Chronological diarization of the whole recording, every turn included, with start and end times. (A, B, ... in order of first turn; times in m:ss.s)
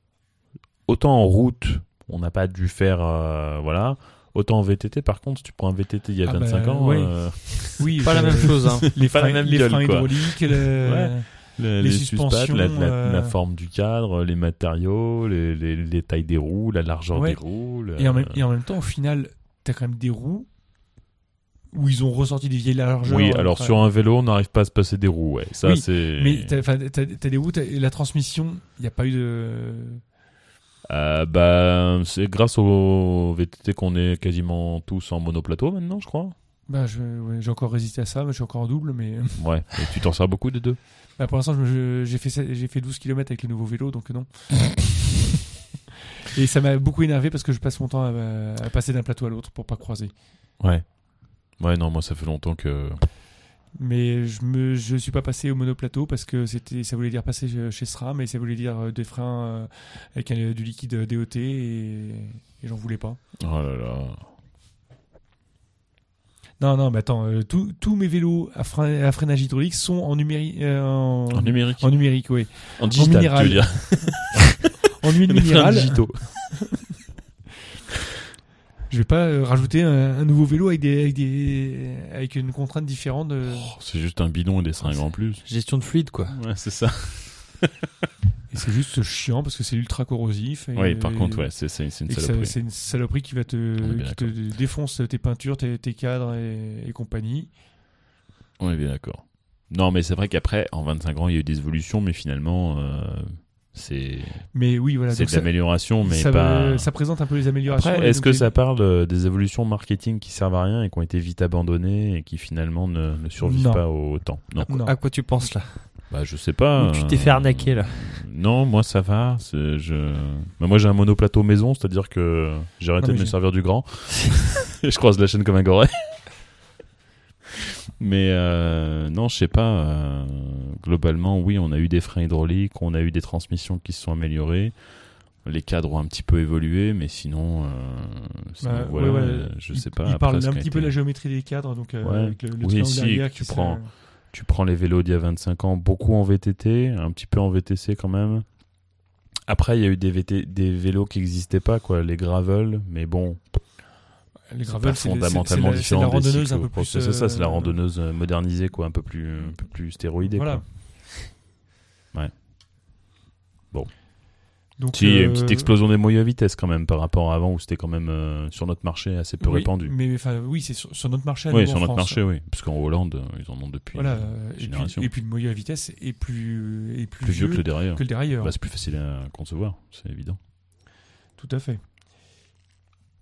0:00.8-0:18.4 A
0:06.2-0:13.4 B
0:08.0-0:08.9 C
0:17.1-0:20.5 B
0:21.7-0:23.8 B
0:23.0-0:26.6 A
0:25.6-0:30.0 B
0:30.8-0:36.3 A
0:36.7-0:39.6 B
0:39.4-0:40.8 A
0:41.2-0:45.0 B
0:46.3-0:50.1 B
0:50.6-0:53.0 A
0:53.7-1:03.2 B
1:03.4-1:04.2 A
1:06.6-1:14.4 B
1:11.3-1:14.5 A
1:15.0-1:16.5 B
1:15.2-1:16.7 A
1:18.9-1:23.7 B
1:23.6-1:25.4 A
1:25.4-1:26.4 C
1:26.3-1:27.7 A
1:28.5-1:37.5 B
1:30.7-1:32.6 A
1:33.8-1:34.5 A
1:38.6-1:46.9 A
1:44.5-1:48.6 B
1:47.6-1:54.8 A
1:53.4-1:55.0 B
1:54.6-1:56.2 C
1:56.1-2:06.3 A
1:56.8-1:58.1 C
2:03.0-2:03.4 B
2:08.0-2:21.0 A
2:18.6-2:23.9 B
2:22.0-2:28.5 A
2:29.4-2:33.6 A
2:34.5-2:37.8 B
2:34.7-2:40.6 A
2:40.2-2:40.6 B
2:43.7-2:44.0 A
2:44.8-2:45.7 B
2:44.9-2:49.9 A
2:49.4-2:52.2 B
2:51.5-2:55.1 A
2:53.9-2:58.6 B
2:57.2-3:00.4 A
3:01.4-3:01.8 B